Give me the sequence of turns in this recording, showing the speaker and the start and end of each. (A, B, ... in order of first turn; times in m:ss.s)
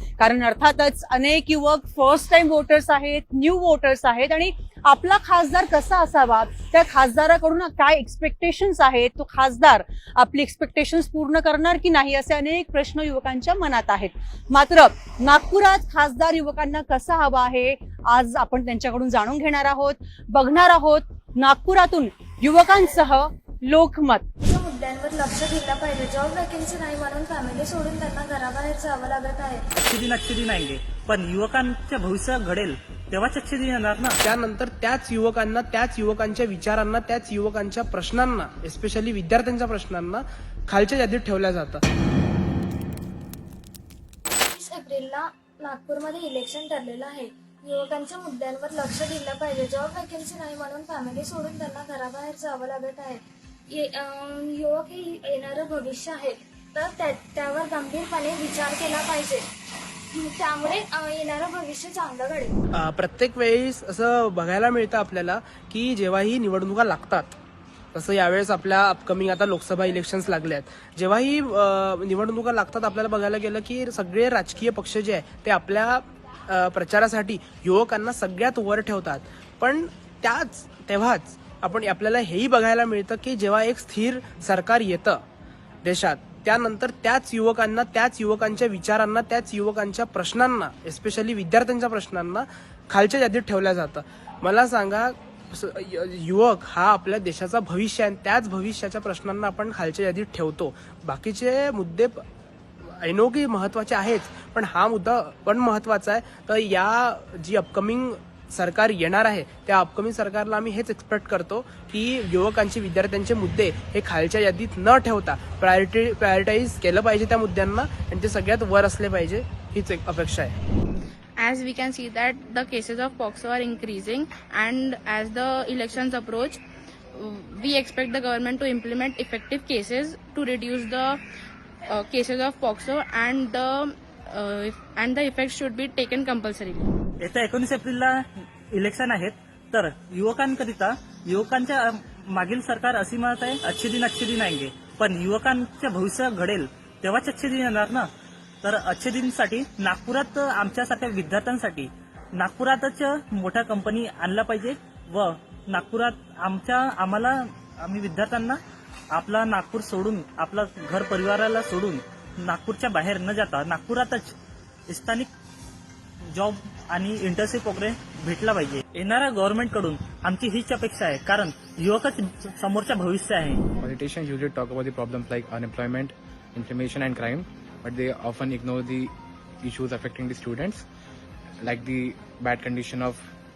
0:00.2-0:24.3 A
0:24.4-0:29.6 B
0:29.8-0:34.2 C
0:34.2-0:41.8 D
0:44.5-0:59.4 B
1:00.1-1:02.6 B
1:02.7-1:07.3 D
1:07.9-1:25.2 D
1:25.8-1:42.2 D
1:42.8-2:00.6 D
2:01.4-2:06.6 E
2:07.2-2:11.2 E
2:11.9-2:16.9 E
2:17.2-2:18.1 C
2:18.7-2:28.1 C
2:28.6-2:38.6 C
2:39.1-2:44.3 C
2:44.9-2:45.3 C
2:46.3-2:53.6 C
2:53.8-3:00.8 F
3:01.6-3:03.3 F